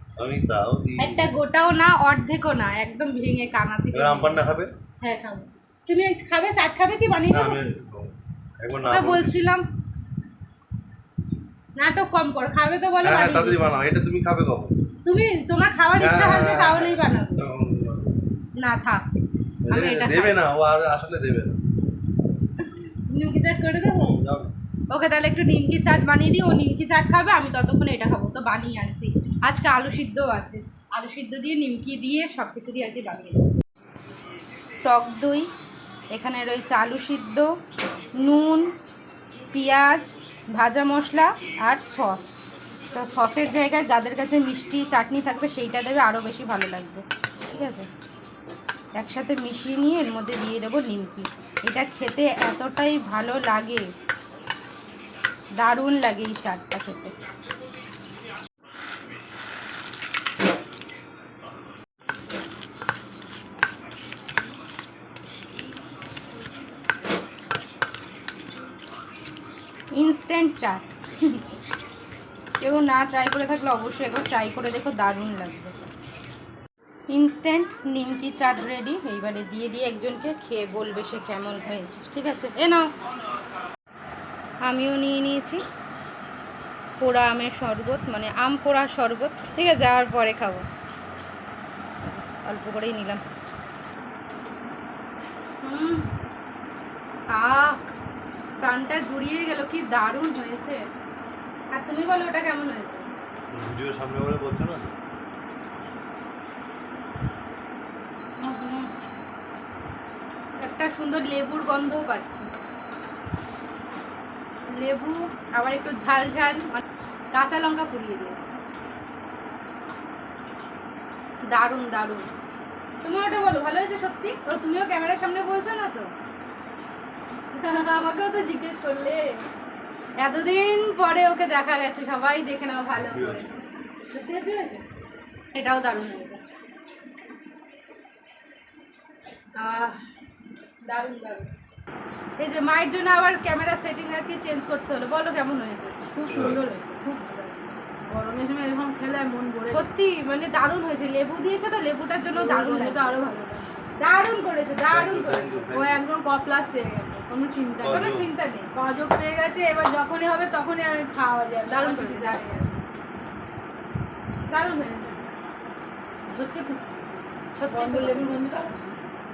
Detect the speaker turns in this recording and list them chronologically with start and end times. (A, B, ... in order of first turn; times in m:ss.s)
0:00.2-0:01.4 A
0:01.0-0:04.4 B
0:03.9-0:04.7 A
0:05.0-0:07.6 B
0:07.3-0:09.4 A
0:08.8-0:09.6 B
0:11.8-0:13.6 B
0:13.0-0:14.8 A
0:15.0-0:17.4 B
0:15.9-0:18.2 A
0:18.6-0:19.0 B
0:19.6-0:21.6 A
0:19.7-0:20.4 B
0:22.6-0:24.2 B
0:24.0-0:24.5 A
0:24.9-0:33.4 B
0:34.8-0:35.5 B
0:36.1-0:37.5 B
0:38.1-0:38.7 B
0:39.5-0:42.4 B
0:42.9-0:47.9 B
0:49.0-0:53.9 B
0:55.6-0:57.1 B
1:09.9-1:11.4 B
1:12.6-1:15.9 B
1:17.1-1:22.9 B
1:24.6-1:25.6 B
1:27.0-1:30.6 B
1:32.1-1:33.2 B
1:35.6-1:36.1 B
1:37.3-1:37.8 B
1:38.6-1:40.9 B
1:41.7-1:43.1 B
1:43.5-1:44.9 A
1:48.4-1:48.9 B
1:50.6-1:52.5 B
1:54.7-1:56.8 B
1:57.3-1:58.4 B
2:01.5-2:02.3 B
2:03.0-2:06.1 B
2:07.5-2:09.4 B
2:10.2-2:13.5 B
2:13.1-2:13.4 A
2:14.1-2:14.8 B
2:15.5-2:16.4 B
2:19.6-2:20.0 B
2:20.9-2:21.5 B
2:22.4-2:26.1 B
2:26.2-2:29.9 C
2:26.3-2:26.6 A
2:29.7-2:33.2 B
2:32.3-2:33.9 C
2:34.0-2:35.7 B
2:34.9-2:36.0 A
2:35.7-2:38.1 C
2:37.8-2:38.2 A
2:37.9-2:38.7 B
2:38.7-2:42.9 C
2:41.7-2:42.4 B
2:44.5-2:45.2 B
2:46.3-2:46.8 C
2:47.6-2:48.4 B
2:47.7-2:48.8 C